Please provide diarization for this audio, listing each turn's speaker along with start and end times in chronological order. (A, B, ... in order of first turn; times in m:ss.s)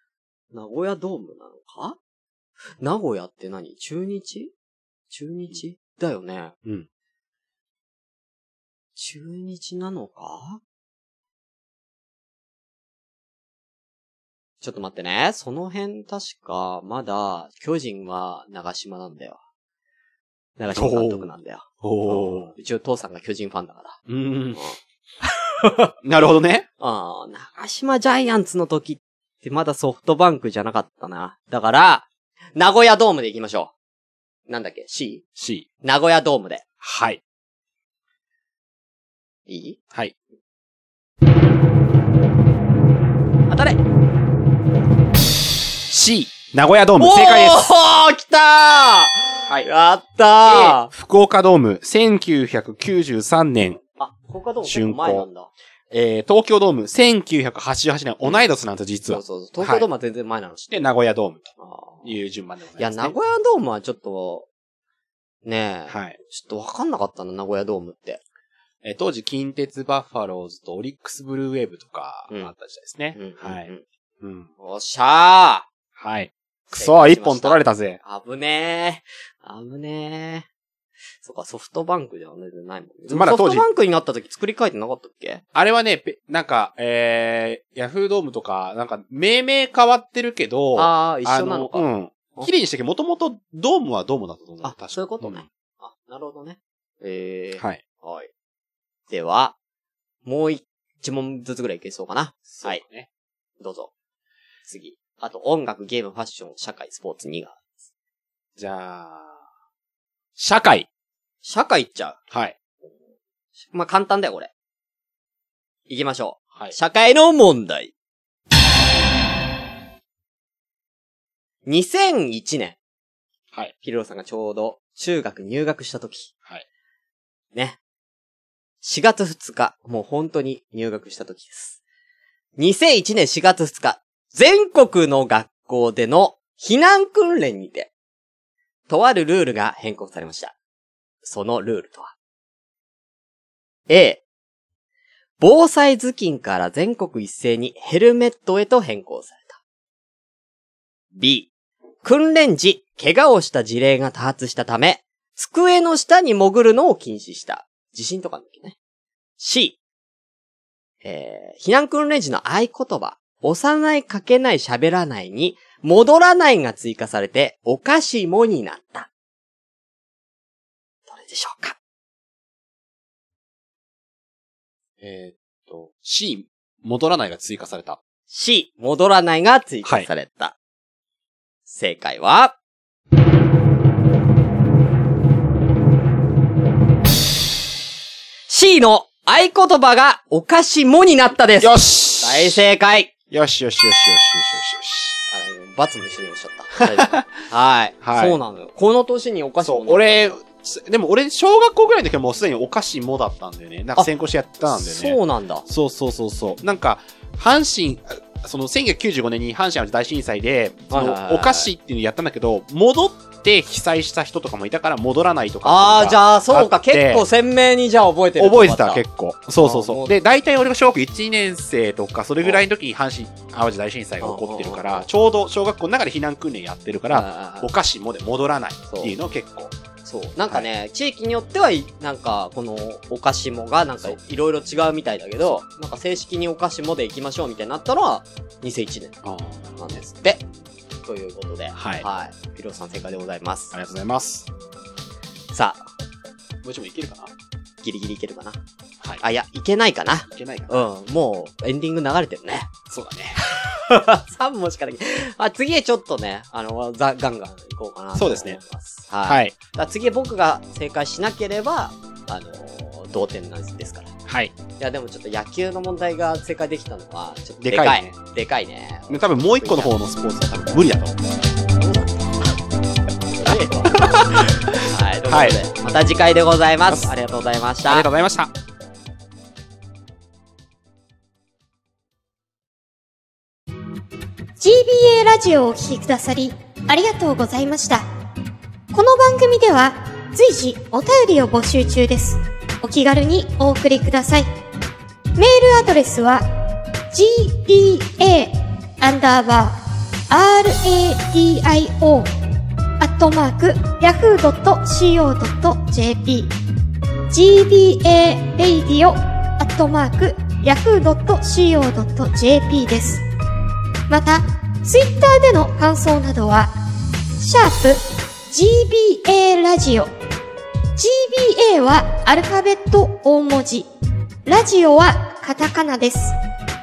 0:00.5-0:02.0 A
0:02.8-0:04.5 A
0:05.1-0:06.5 A
0:09.0-0:10.6 A
0:14.6-0:19.4 A
0:20.6-0:24.0 A
0:20.7-0:21.3 B
0:21.8-0:22.5 B
0:24.1-0:24.6 B
0:24.6-0:25.9 A
0:26.0-0:26.6 B
0:26.8-0:33.7 A
0:34.5-0:35.2 A
0:35.4-0:35.6 B
0:35.8-0:36.6 A
0:36.8-0:37.2 B
0:39.5-0:39.8 A
0:43.5-0:43.8 A
0:45.9-0:47.6 B
0:47.0-0:50.9 A
0:50.4-0:53.8 B
0:54.0-0:55.5 A
0:54.6-0:55.3 B
0:55.9-0:59.9 B
0:59.1-1:00.7 A
1:00.7-1:01.5 B
1:01.6-1:02.2 A
1:02.0-1:03.2 B
1:02.8-1:04.5 A
1:05.4-1:08.2 A
1:05.9-1:06.2 B
1:08.8-1:13.7 B
1:13.1-1:13.8 A
1:14.2-1:14.5 B
1:14.6-1:15.6 A
1:16.0-1:18.0 B
1:16.8-1:20.5 A
1:21.2-1:25.4 A
1:23.1-1:23.6 B
1:25.5-1:35.4 B
1:30.7-1:32.5 A
1:34.6-1:38.3 A
1:39.1-1:39.6 A
1:40.2-1:42.8 A
1:42.5-1:43.1 B
1:43.6-1:43.9 A
1:44.6-1:47.6 A
1:48.6-1:49.4 B
1:50.4-1:50.9 B
1:51.4-1:52.2 A
1:53.6-1:54.5 A
1:55.9-1:57.9 A
2:01.6-2:02.8 A
2:03.8-2:06.3 A
2:08.8-2:11.8 A
2:12.6-2:17.9 A
2:18.9-2:20.5 A
2:21.2-2:22.1 A
2:23.9-2:24.2 A
2:25.4-2:29.6 A
2:31.1-2:31.5 A
2:32.0-2:38.8 A
2:39.4-2:39.8 A
2:41.0-2:49.1 A
2:51.1-2:51.8 A
2:55.0-2:58.0 B
2:58.3-3:00.5 A
3:01.6-3:02.5 A
3:08.5-3:13.1 A
3:11.6-3:12.6 B
3:13.3-3:15.2 B
3:15.3-3:20.4 A
3:16.8-3:17.2 B
3:18.0-3:18.4 B
3:19.6-3:37.2 B
3:24.7-3:25.6 A
3:30.9-3:31.7 A
3:35.6-3:39.0 A
3:38.4-3:49.7 B
3:39.6-3:40.1 A
3:44.2-3:45.1 A
3:47.1-3:47.7 A
3:48.9-3:49.1 A
3:50.0-3:59.2 A
3:59.2-4:00.0 B
3:59.8-4:00.4 A
4:01.0-4:03.7 A
4:01.7-4:02.0 B
4:03.7-4:04.5 B
4:05.5-4:05.8 A
4:06.6-4:07.3 B
4:07.8-4:08.6 A
4:09.2-4:12.7 A
4:10.3-4:10.8 B
4:12.9-4:13.4 B
4:13.4-4:24.1 A
4:18.2-4:18.6 B
4:19.3-4:19.6 B
4:24.3-4:24.5 B
4:24.8-4:29.9 A
4:27.6-4:28.1 B
4:29.1-4:31.2 B
4:31.8-4:32.4 A
4:33.4-4:34.2 A
4:33.9-4:34.7 B
4:34.8-4:38.1 A
4:35.3-4:35.6 B
4:37.9-4:38.5 B
4:44.6-4:48.0 C
4:48.9-4:54.5 C
4:55.4-4:56.4 C
4:57.1-4:59.8 C
5:00.3-5:02.3 C
5:03.0-5:06.5 C
5:07.3-5:13.2 C
5:14.1-5:16.7 C
5:17.4-5:20.1 C
5:21.0-5:23.9 C
5:24.4-5:26.3 C